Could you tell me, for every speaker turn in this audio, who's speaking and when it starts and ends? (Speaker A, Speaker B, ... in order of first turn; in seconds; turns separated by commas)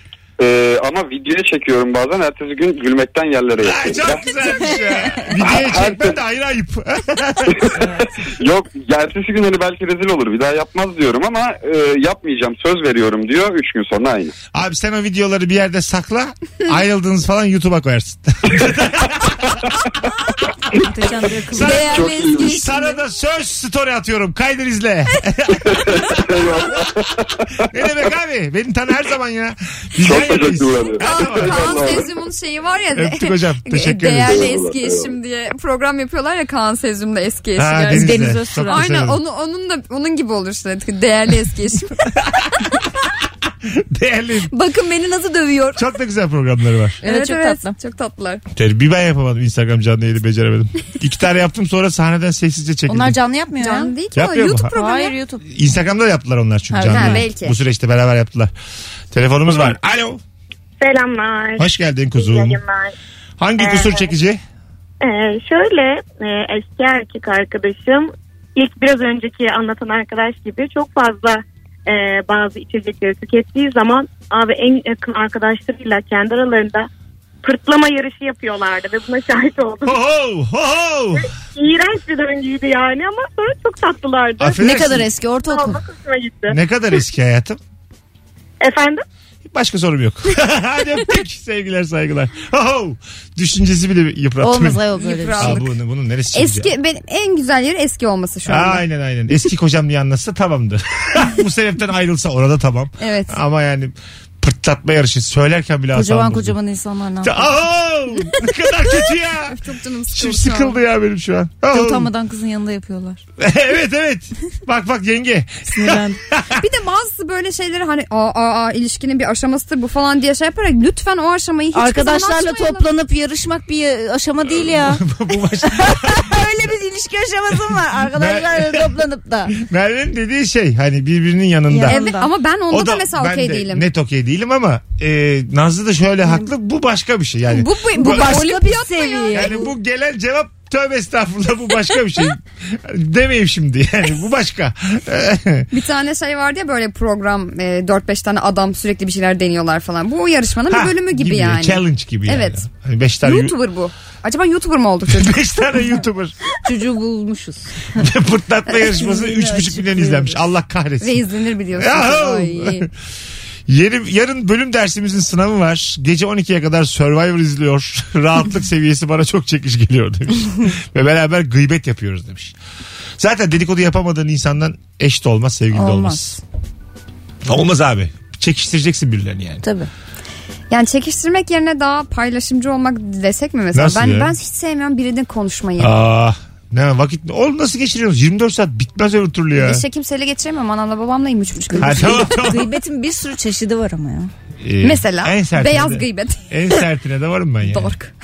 Speaker A: 0.4-4.2, Speaker B: 3.6-7.9, Speaker A: 5.4-6.2, Speaker A: 7.5-14.3, Speaker B: 14.5-19.6, Speaker C: 20.7-22.4, Speaker B: 21.5-27.0, Speaker D: 21.7-23.0, Speaker A: 21.9-22.5, Speaker A: 25.7-27.1, Speaker B: 27.6-32.0, Speaker A: 30.0-32.1, Speaker D: 31.0-42.1, Speaker B: 32.9-34.6, Speaker A: 34.2-35.1, Speaker B: 37.5-39.2, Speaker C: 37.9-38.9, Speaker B: 43.6-44.5, Speaker D: 44.5-45.8, Speaker B: 45.8-47.0, Speaker C: 47.0-47.8, Speaker D: 47.0-48.4, Speaker B: 48.5-53.2, Speaker C: 52.9-53.9, Speaker D: 53.6-55.1, Speaker B: 54.1-54.7, Speaker C: 54.7-55.4, Speaker B: 55.4-58.5, Speaker C: 56.7-57.2, Speaker D: 56.9-57.5, Speaker B: 59.1-60.2, Speaker E: 60.8-62.9, Speaker B: 61.6-62.6, Speaker B: 63.4-64.4, Speaker E: 63.6-64.1, Speaker E: 65.0-76.9, Speaker E: 77.4-80.0, Speaker B: 79.8-81.3, Speaker E: 81.2-84.6, Speaker B: 84.4-85.1, Speaker C: 84.6-85.8, Speaker E: 85.4-86.5, Speaker B: 86.5-87.6, Speaker E: 88.6-89.0, Speaker B: 89.5-94.8, Speaker C: 94.4-95.6, Speaker D: 95.0-95.7, Speaker B: 95.4-96.7, Speaker D: 96.3-98.8, Speaker B: 98.5-106.5, Speaker D: 103.0-103.3, Speaker C: 105.9-107.5, Speaker B: 107.2-109.6, Speaker D: 109.5-110.8, Speaker B: 110.1-112.1, Speaker C: 111.7-113.2, Speaker B: 113.4-116.6, Speaker C: 115.7-116.2, Speaker D: 116.6-122.9, Speaker C: 121.7-125.0, Speaker B: 124.7-126.4, Speaker C: 125.8-129.6, Speaker B: 128.1-128.9, Speaker B: 129.5-132.1, Speaker C: 131.7-132.3, Speaker D: 131.8-133.8, Speaker B: 132.7-138.3, Speaker D: 137.5-139.5, Speaker C: 137.9-139.7, Speaker B: 139.3-145.7, Speaker D: 145.7-152.6, Speaker B: 150.7-153.5, Speaker D: 153.2-155.6, Speaker B: 155.1-156.3, Speaker C: 156.6-157.9, Speaker B: 157.9-161.2, Speaker C: 159.1-160.3, Speaker D: 161.0-162.8, Speaker B: 161.8-162.9, Speaker B: 163.7-172.5, Speaker B: 173.2-176.4, Speaker C: 175.7-176.4, Speaker B: 177.4-179.6, Speaker C: 179.6-179.9, Speaker D: 180.7-185.9, Speaker B: 183.7-184.3, Speaker B: 185.8-189.8, Speaker D: 189.6-192.4, Speaker C: 191.6-194.3, Speaker B: 191.8-192.7, Speaker B: 194.6-197.9, Speaker D: 194.8-196.4, Speaker D: 197.6-198.1